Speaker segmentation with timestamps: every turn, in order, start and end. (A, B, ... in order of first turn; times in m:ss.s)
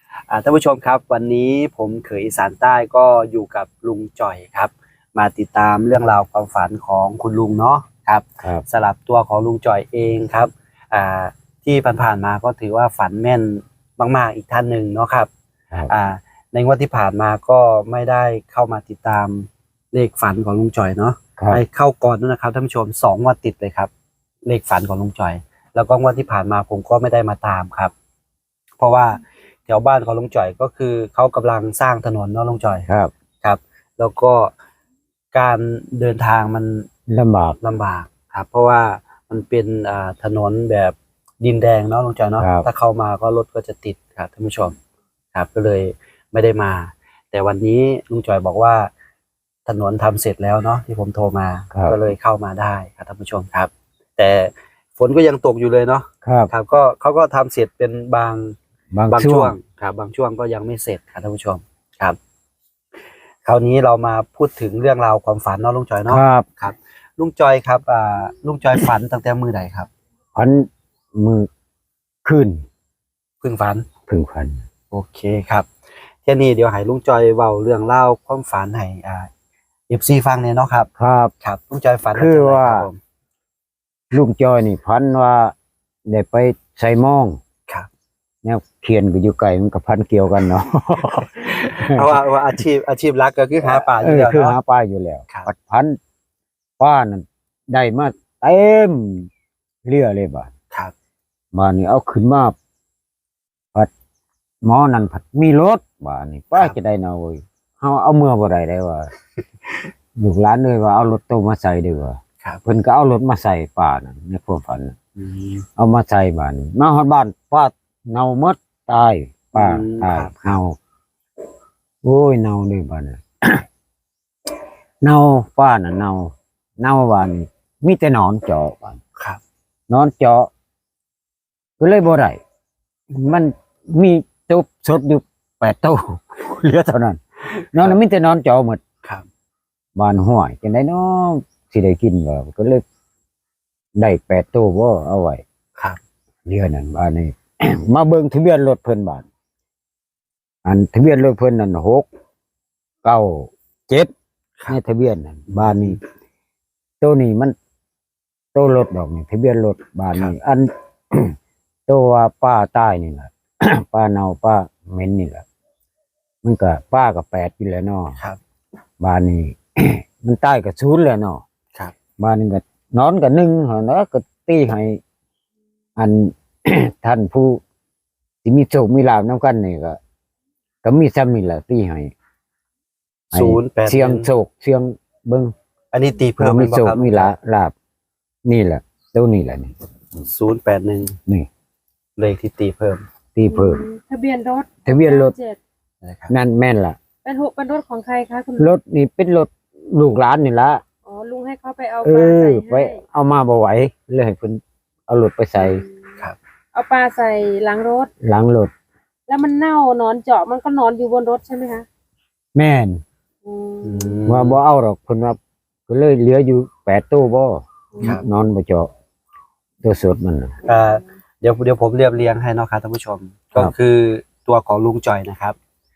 0:00.3-0:15.3 A
0:15.9-0:23.9 A
0:21.4-0:21.6 B
0:24.5-0:27.9 A
0:28.8-0:32.9 A
0:32.9-0:33.1 B
0:33.4-0:34.5 A
0:35.3-0:36.9 A
0:37.1-0:37.6 B
0:37.6-0:44.8 A
0:42.4-0:42.7 B
0:45.3-0:48.9 A
0:49.7-0:58.6 A
0:51.7-0:52.0 B
0:56.2-0:56.5 B
0:58.9-0:59.6 B
0:59.1-1:02.2 A
1:03.4-1:09.9 A
1:06.1-1:06.5 B
1:10.4-1:11.5 B
1:12.2-1:12.7 B
1:13.4-1:13.9 A
1:14.1-1:14.6 B
1:14.9-1:15.7 A
1:16.2-1:19.3 A
1:19.9-1:20.9 A
1:21.0-1:21.3 B
1:21.4-1:23.0 A
1:22.2-1:22.9 B
1:24.1-1:25.5 B
1:26.1-1:27.4 B
1:28.4-1:32.2 B
1:31.5-1:34.6 A
1:33.6-1:36.0 B
1:36.8-1:39.3 B
1:39.8-1:40.5 B
1:41.5-1:42.6 B
1:44.6-1:49.1 B
1:50.2-1:55.0 B
1:55.2-1:55.6 A
1:55.8-2:00.8 B
1:59.5-2:00.6 A
2:02.0-2:03.6 B
2:05.0-2:09.0 B
2:09.9-2:10.5 B
2:11.8-2:12.4 B
2:13.1-2:18.8 B
2:20.0-2:22.8 B
2:24.0-2:25.4 B
2:26.5-2:29.3 B
2:30.6-2:32.1 B
2:33.0-2:34.1 B
2:34.7-2:36.0 B
2:35.5-2:36.0 A
2:37.0-2:37.6 B
2:38.5-2:41.4 B
2:41.9-2:45.5 B
2:46.4-2:48.2 B
2:49.0-2:51.4 B
2:52.2-2:55.0 B
2:56.0-2:57.6 B
2:58.4-3:00.0 B
3:00.8-3:02.1 B
3:03.3-3:04.3 A
3:03.3-3:05.5 B
3:05.9-3:07.3 A
3:06.4-3:07.7 B
3:08.4-3:09.7 B
3:10.2-3:11.2 A
3:12.2-3:13.0 A
3:13.4-3:13.8 B
3:13.4-3:15.6 C
3:14.9-3:15.3 B
3:16.0-3:16.3 A
3:16.3-3:17.0 B
3:17.2-3:18.7 C
3:18.6-3:20.8 B
3:21.1-3:23.0 C
3:22.0-3:25.8 B
3:25.6-3:26.2 C
3:26.8-3:28.1 C
3:28.2-3:28.7 B
3:29.3-3:31.9 C
3:32.6-3:33.0 B
3:33.4-3:34.2 C
3:33.8-3:34.6 A
3:34.3-3:38.9 B
3:37.9-3:38.2 C
3:39.8-3:40.6 B
3:40.6-3:41.0 C
3:40.6-3:45.6 A